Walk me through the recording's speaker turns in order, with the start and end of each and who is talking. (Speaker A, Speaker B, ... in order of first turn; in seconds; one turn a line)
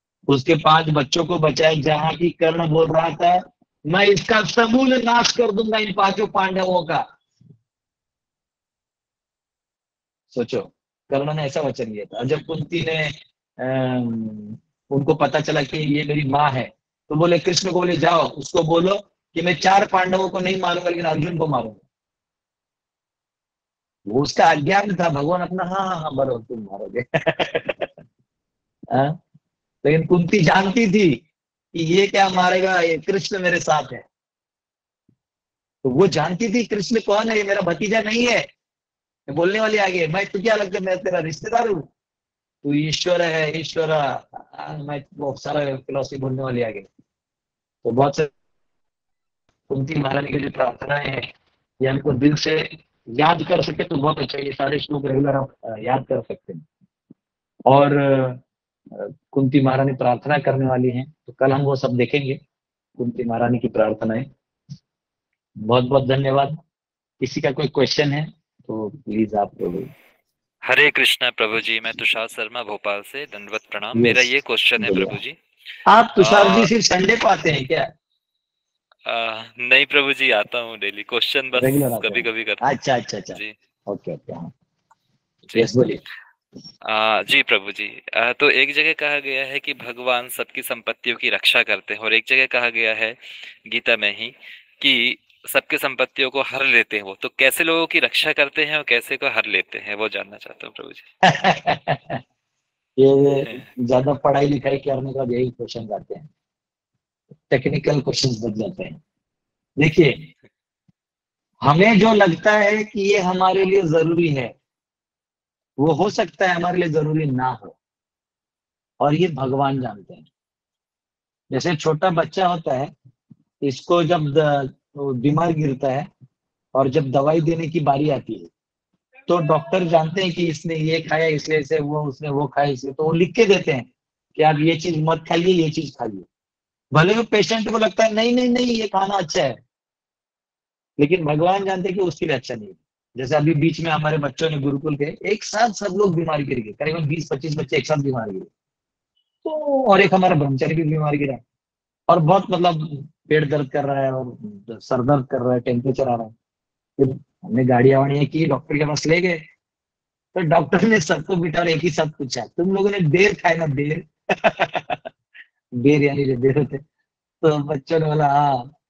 Speaker A: 0.3-7.0
Speaker A: 10.3-21.8
Speaker A: 24.1-27.9
Speaker A: 28.9-29.2
Speaker A: 29.8-31.2
Speaker A: 31.7-34.0
Speaker A: 35.8-38.5
Speaker A: 39.3-41.9
Speaker A: 42.6-46.9
Speaker A: 47.8-48.3
Speaker A: 49.7-51.3
Speaker A: 51.8-56.6
Speaker A: 57.7-58.4
Speaker A: 58.9-62.4
Speaker A: 63.0-64.3
Speaker A: 65.6-66.6
Speaker A: 67.2-69.9
Speaker B: 70.7-75.4
Speaker A: 73.9-75.2
Speaker A: 75.8-77.9
Speaker B: 76.2-76.7
Speaker B: 79.0-82.7
Speaker A: 81.6-84.5
Speaker A: 85.5-86.0
Speaker B: 86.9-101.0
Speaker A: 101.2-102.2
Speaker A: 103.0-106.3
Speaker A: 107.5-109.0
Speaker A: 109.8-110.2
Speaker A: 111.6-114.5
Speaker A: 115.8-117.7
Speaker A: 119.0-120.2
Speaker A: 121.5-122.9
Speaker A: 123.6-126.1
Speaker A: 126.7-128.5
Speaker A: 129.3-136.3
Speaker A: 136.9-139.6
Speaker A: 141.0-148.5
Speaker A: 149.4-151.4
Speaker A: 152.1-156.3
Speaker A: 157.0-159.4
Speaker A: 160.3-165.0
Speaker A: 165.8-166.8
Speaker A: 167.4-168.7